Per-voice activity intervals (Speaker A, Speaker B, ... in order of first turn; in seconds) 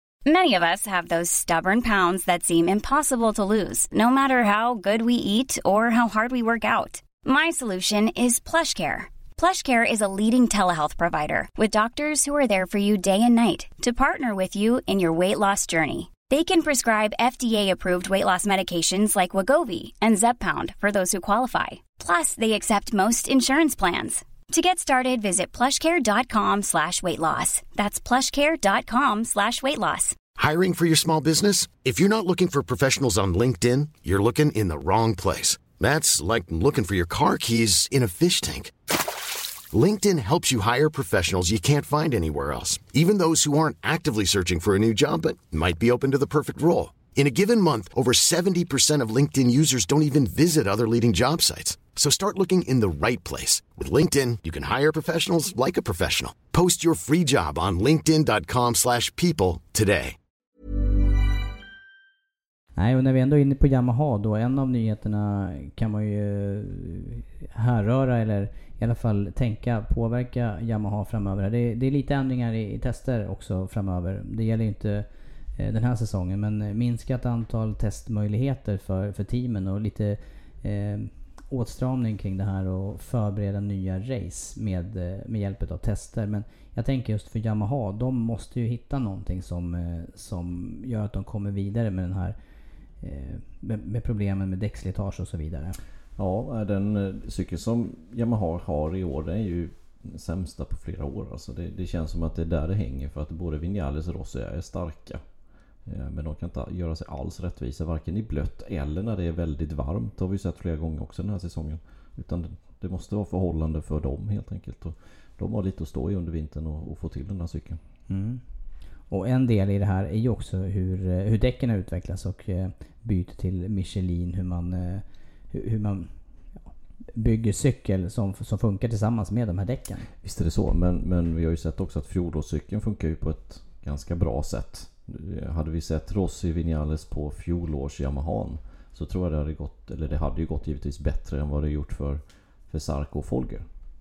Speaker A: 0.3-30.2
Speaker B: 30.4-38.7, 39.7-60.2
Speaker C: 62.8-75.1, 75.6-92.4, 93.0-95.8, 118.1-118.4, 119.1-126.1, 127.1-130.1
Speaker D: 96.2-105.2, 105.8-117.8, 130.2-143.7